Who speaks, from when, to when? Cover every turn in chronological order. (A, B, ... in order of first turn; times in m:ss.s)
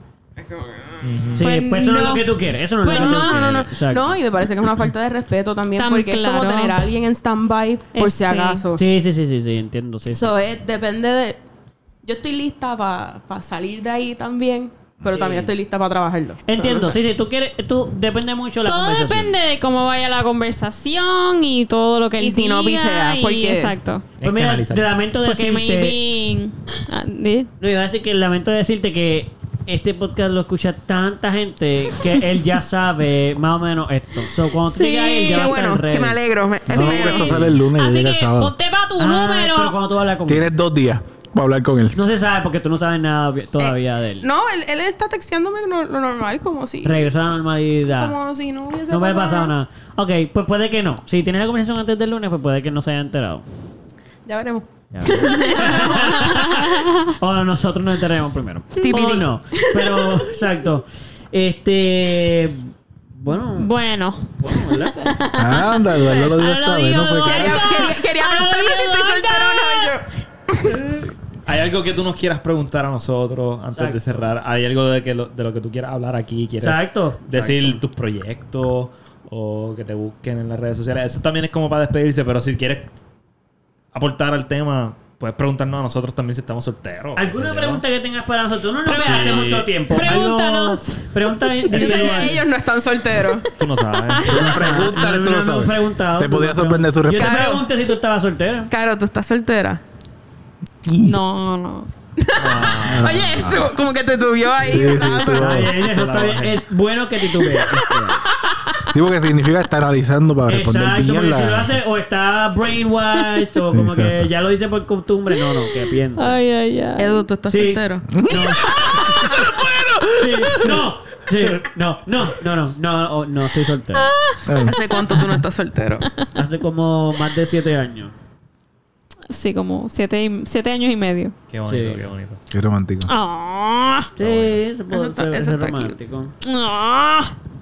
0:00.4-0:01.3 A
0:01.0-0:01.4 B
0:01.3-0:04.2 C
0:01.4-0:02.3 D
0:02.8-0:03.5 D
0:02.8-0:08.8 A
0:05.8-0:06.8 D
0:07.9-0:08.6 D
0:08.7-0:10.3 C
0:10.1-0:11.4 A
0:12.0-0:17.0 A
0:15.0-0:15.5 C
0:16.4-0:19.3 C
0:18.6-0:24.0 D
0:22.2-0:23.7 A
0:24.2-0:24.9 B
0:24.2-0:25.9 C
0:25.2-0:27.5 D
0:27.6-0:37.6 C
0:34.7-0:35.6 D
0:35.3-0:37.3 A
0:36.7-0:38.5 E
0:37.7-0:39.8 D
0:39.0-0:40.5 C
0:40.3-0:42.0 E
0:41.9-0:44.3 C
0:43.6-0:47.1 A
0:46.8-0:48.2 C
0:47.9-0:49.5 A
0:48.9-0:53.4 C
0:54.2-0:56.7 A
0:54.9-1:03.7 C
0:55.1-0:57.1 D
0:58.8-0:59.2 D
0:58.8-1:00.4 A
1:03.5-1:04.3 D
1:04.4-1:05.1 C
1:04.9-1:09.9 D
1:05.3-1:07.8 E
1:07.2-1:10.8 A
1:10.9-1:22.9 B
1:13.7-1:14.2 C
1:16.6-1:17.8 C
1:23.9-1:27.8 B
1:27.2-1:32.4 C
1:28.8-1:31.7 D
1:28.9-1:29.7 B
1:31.7-1:32.4 B
1:31.7-1:33.5 A
1:33.5-1:34.9 B
1:34.0-1:34.8 D
1:34.2-1:37.5 E
1:34.3-1:38.7 C
1:37.1-1:37.7 A
1:38.7-1:39.8 A
1:40.8-1:41.2 E
1:41.0-1:41.9 D
1:42.2-1:45.7 A
1:42.4-1:43.2 B
1:42.8-1:43.7 E
1:44.6-1:45.7 E
1:45.3-1:48.2 C
1:45.6-1:46.6 B
1:48.9-1:51.8 E
1:50.5-1:56.4 C
1:53.7-1:54.3 E
1:56.2-1:57.2 D
1:57.0-1:59.7 A
1:57.5-1:58.8 C
1:58.1-1:58.7 E
2:00.1-2:04.1 C
2:03.9-2:05.4 D
2:04.4-2:04.8 E
2:04.6-2:06.1 A
2:06.3-2:08.1 C
2:09.3-2:11.3 D
2:11.5-2:12.4 B
2:11.6-2:12.1 C
2:12.5-2:13.1 E
2:13.0-2:14.1 D
2:14.2-2:16.3 C
2:14.2-2:14.6 B
2:14.9-2:16.0 A
2:16.4-2:17.3 D